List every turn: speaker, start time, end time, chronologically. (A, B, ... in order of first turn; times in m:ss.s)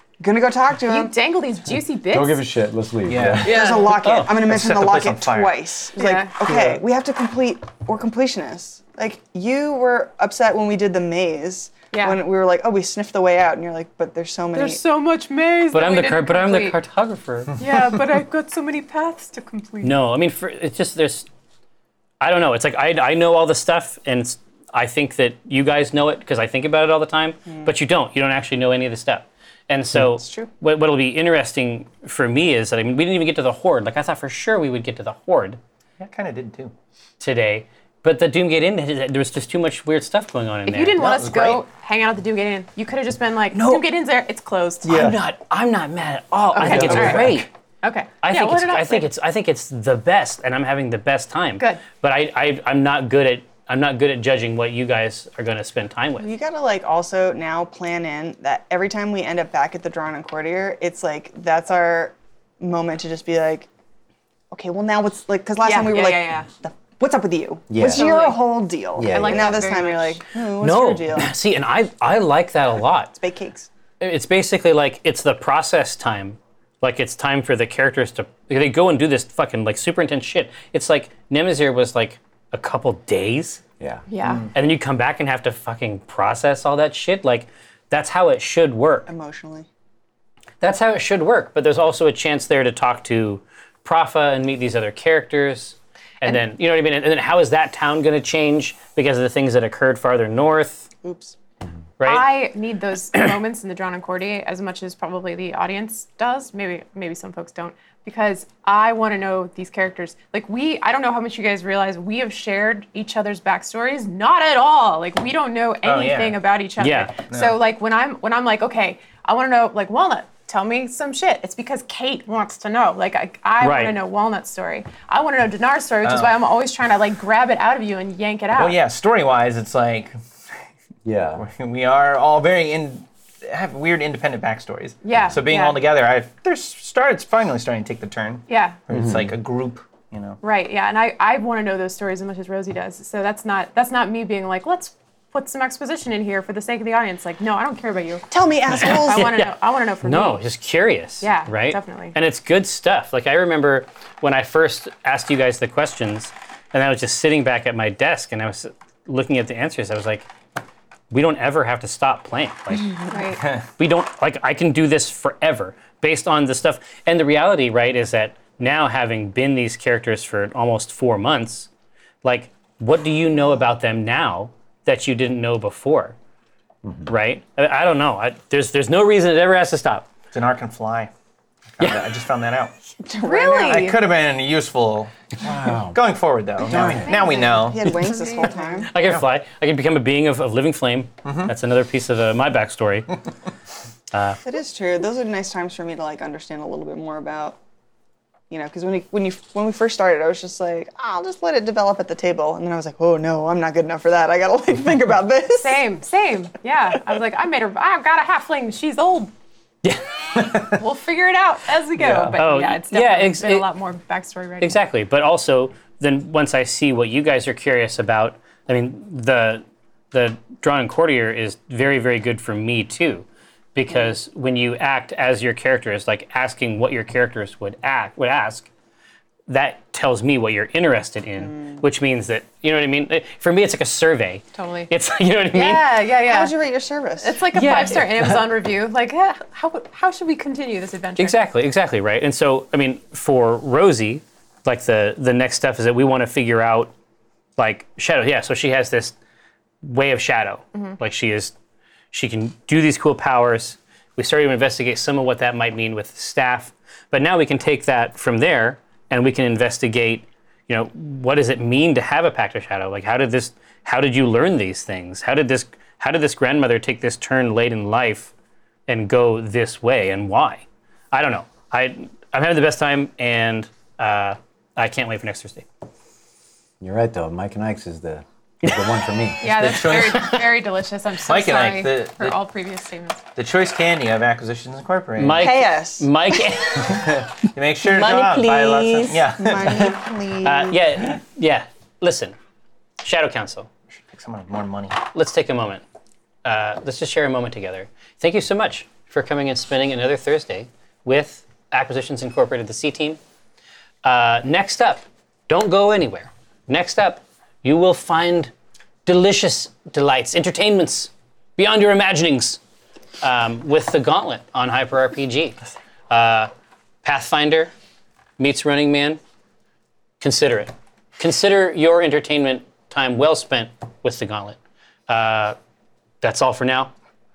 0:00.2-0:01.1 A
0:00.8-0:02.4 B
0:01.7-0:03.8 C
0:03.1-0:05.7 D
0:03.4-0:03.9 B
0:03.4-0:14.8 A
0:04.0-0:04.4 E
0:05.9-0:06.3 B
0:06.5-0:06.8 C
0:11.9-0:12.2 B
0:14.5-0:16.8 B
0:15.7-0:17.6 E
0:17.6-0:20.0 B
0:19.8-0:21.3 E
0:22.2-0:35.6 E
0:30.2-0:30.5 B
0:36.0-0:36.7 D
0:37.2-0:41.0 E
0:40.7-0:45.1 B
0:41.0-0:41.6 D
0:43.5-0:43.8 E
0:44.8-0:47.5 E
0:44.8-0:45.2 C
0:46.5-0:49.1 B
0:46.6-0:47.4 C
0:46.7-0:47.2 D
0:48.2-0:56.3 E
0:51.6-0:51.8 B
0:56.2-1:03.7 A
1:04.5-1:11.4 A
1:05.6-1:06.5 B
1:07.7-1:08.2 C
1:07.8-1:08.5 B
1:08.9-1:09.6 C
1:09.1-1:10.2 B
1:10.6-1:13.1 E
1:13.1-1:13.7 A
1:14.0-1:23.6 E
1:24.1-1:24.5 B
1:24.5-1:29.1 E
1:29.1-1:29.7 A
1:30.6-1:40.9 E
1:41.0-1:41.4 A
1:42.0-1:42.3 E
1:42.0-2:08.8 B
1:55.8-1:56.4 D
1:56.8-1:57.1 E
1:57.3-1:57.6 D
2:03.6-2:04.0 E
2:06.0-2:06.4 D
2:08.5-2:10.1 D
2:11.0-2:11.4 C
2:11.4-2:20.4 D
2:15.0-2:15.8 B
2:18.5-2:18.8 B
2:18.9-2:19.3 C
2:20.4-2:28.3 B
2:28.3-2:29.3 A
2:28.7-2:40.3 E
2:28.9-2:30.4 B
2:31.2-2:32.2 B
2:41.1-2:43.1 E
2:43.1-2:43.4 B
2:43.8-2:51.7 E
2:52.2-2:56.1 E
2:56.8-2:57.1 C
2:57.1-3:00.1 E
3:00.3-3:01.1 D
3:01.7-3:02.7 D
3:03.0-3:03.9 A
3:03.2-3:04.0 B
3:03.6-3:07.9 D
3:05.4-3:06.0 C
3:06.6-3:07.1 C
3:07.0-3:08.9 B
3:07.1-3:08.9 A
3:08.9-3:13.2 E
3:11.2-3:11.5 D
3:14.1-3:14.4 E
3:14.4-3:17.6 A
3:18.5-3:25.9 A
3:25.6-3:29.3 B
3:29.8-3:30.4 E
3:30.7-3:34.8 B
3:32.0-3:32.4 C
3:32.3-3:33.7 E
3:34.6-3:48.7 E
3:49.5-3:55.9 E
3:51.4-3:51.8 A
3:54.5-3:54.9 B
3:55.5-3:56.5 B
3:56.2-3:57.4 A
3:57.2-4:01.5 B
3:57.5-3:58.2 E
4:01.2-4:06.9 E
4:07.6-4:09.2 E
4:09.8-4:11.5 E
4:12.1-4:28.3 E
4:28.9-4:35.6 E
4:36.8-4:39.4 C
4:39.4-4:43.2 B
4:39.4-4:40.4 D
4:39.9-4:40.4 E
4:41.2-4:42.4 D
4:43.4-4:45.5 D
4:45.2-4:47.3 E
4:45.4-4:46.1 A
4:46.7-4:50.0 D
4:47.8-4:49.2 E
4:49.3-4:50.8 A
4:50.4-4:52.4 E
4:53.0-4:53.7 E
4:54.0-4:55.0 D
4:55.0-4:55.8 E
4:56.4-5:03.2 E
5:04.0-5:08.5 E
5:09.0-5:12.6 E
5:13.2-5:15.6 E
5:16.1-5:16.5 E
5:17.0-5:17.7 E
5:18.4-5:19.2 E
5:20.2-5:24.6 E
5:25.1-5:25.6 E
5:26.2-5:26.9 E